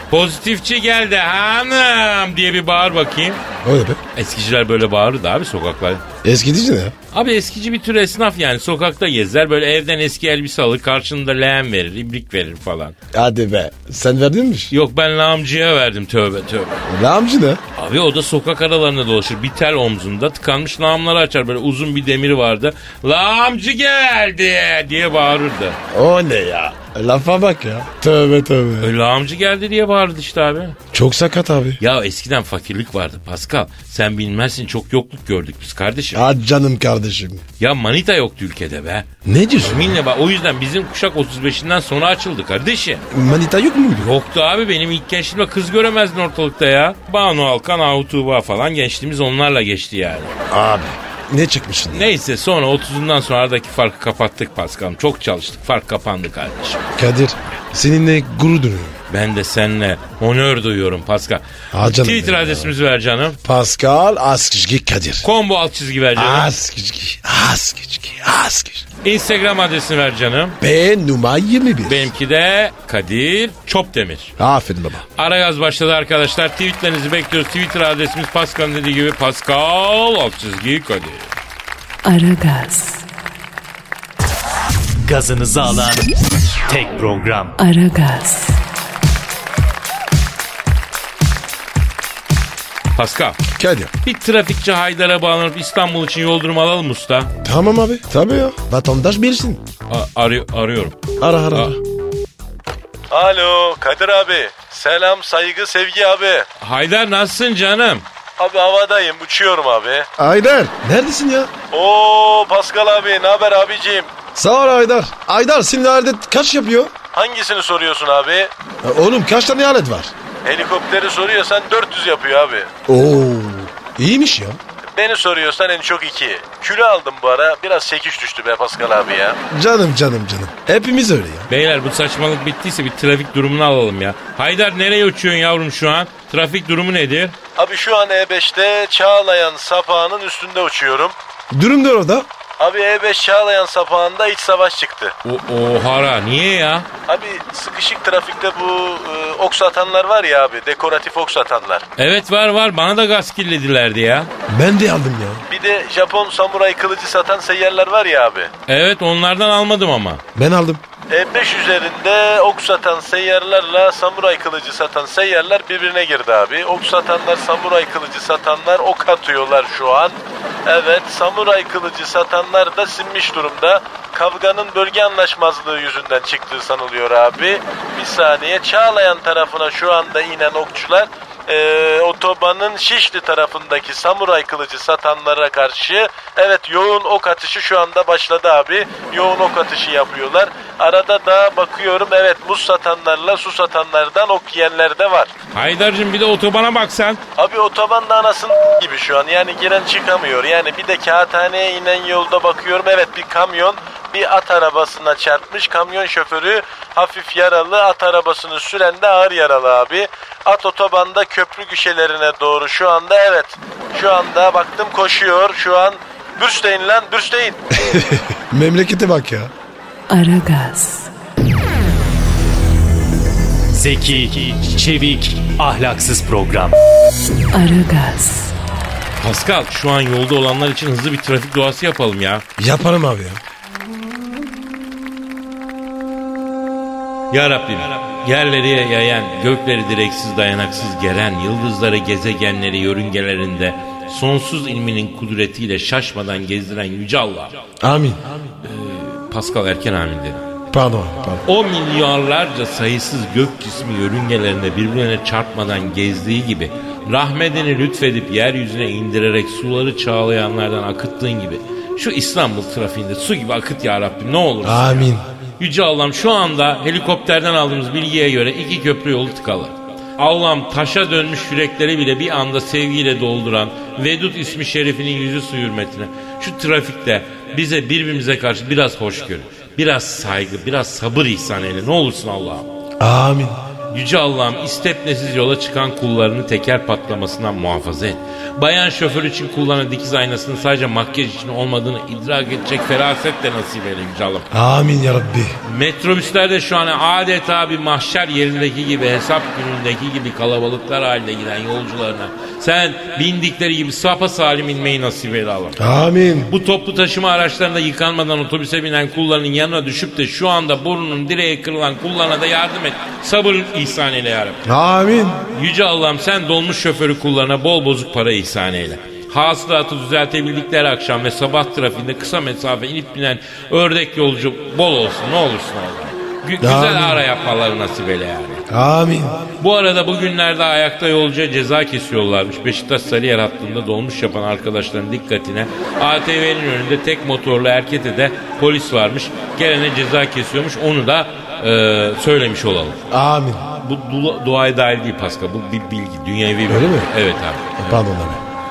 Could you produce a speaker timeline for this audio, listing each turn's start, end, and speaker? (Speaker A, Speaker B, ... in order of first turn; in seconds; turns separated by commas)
Speaker A: 0.1-3.4, Speaker B: 3.6-4.0, Speaker A: 4.2-6.0, Speaker B: 6.2-6.9, Speaker A: 7.1-12.9, Speaker B: 13.1-14.7, Speaker A: 14.7-16.9, Speaker B: 16.9-17.6, Speaker A: 17.8-25.8, Speaker B: 25.9-28.9, Speaker A: 28.8-30.8, Speaker B: 30.9-31.8, Speaker A: 31.8-36.2, Speaker B: 36.1-37.4, Speaker A: 37.6-39.1, Speaker B: 39.2-40.0, Speaker A: 39.6-43.0, Speaker B: 43.1-44.1, Speaker A: 44.0-50.3, Speaker B: 50.5-52.1, Speaker A: 51.9-56.8, Speaker B: 57.0-59.0, Speaker A: 59.1-63.4, Speaker B: 61.7-62.7, Speaker B: 63.4-65.3, Speaker A: 65.2-66.5, Speaker B: 66.1-68.8, Speaker A: 69.0-70.6, Speaker B: 70.6-72.1, Speaker A: 71.8-74.3, Speaker B: 74.4-75.0, Speaker A: 75.2-81.3, Speaker C: 82.0-83.0, Speaker D: 85.0-86.1, Speaker D: 86.7-87.5, Speaker C: 87.6-88.6, Speaker A: 92.9-93.4, Speaker B: 93.5-93.9, Speaker A: 94.0-97.3, Speaker B: 97.4-99.6, Speaker A: 99.9-101.0, Speaker B: 101.2-101.8, Speaker E: 103.1-106.5, Speaker A: 106.6-108.0, Speaker E: 108.4-110.1, Speaker B: 110.2-111.5, Speaker E: 111.7-114.1, Speaker B: 114.3-116.9, Speaker E: 117.1-118.5, Speaker B: 118.8-120.1, Speaker E: 120.4-122.7, Speaker B: 122.9-124.6, Speaker E: 125.0-129.4, Speaker B: 129.5-131.5, Speaker A: 131.5-137.3, Speaker E: 137.6-141.1, Speaker B: 141.5-142.3, Speaker E: 142.6-145.1, Speaker A: 145.2-146.9, Speaker E: 147.1-151.8, Speaker A: 152.0-154.3, Speaker B: 154.5-155.4, Speaker E: 155.5-158.5, Speaker A: 158.7-160.2, Speaker B: 160.3-160.8, Speaker E: 161.1-195.3, Speaker A: 195.5-197.2, Speaker E: 197.4-217.6, Speaker B: 217.7-219.5, Speaker C: 220.1-221.1, Speaker D: 223.7-226.8, Speaker C: 227.5-228.5, Speaker A: 229.2-232.4, Speaker B: 232.6-233.4, Speaker A: 237.3-247.6, Speaker B: 247.8-248.3, Speaker A: 248.6-250.4, Speaker B: 250.7-251.5, Speaker A: 251.4-282.7, Speaker B: 264.6-265.2, Speaker B: 283.0-283.7, Speaker A: 283.9-294.5, Speaker B: 294.5-295.6, Speaker A: 295.6-305.8, Speaker B: 305.8-306.5, Speaker A: 306.4-314.6, Speaker B: 314.6-315.4, Speaker A: 315.5-328.6, Speaker B: 326.6-327.2, Speaker B: 328.7-329.5, Speaker A: 329.6-343.0, Speaker B: 343.1-343.7, Speaker A: 343.7-348.0, Speaker B: 346.7-347.1, Speaker B: 347.8-348.4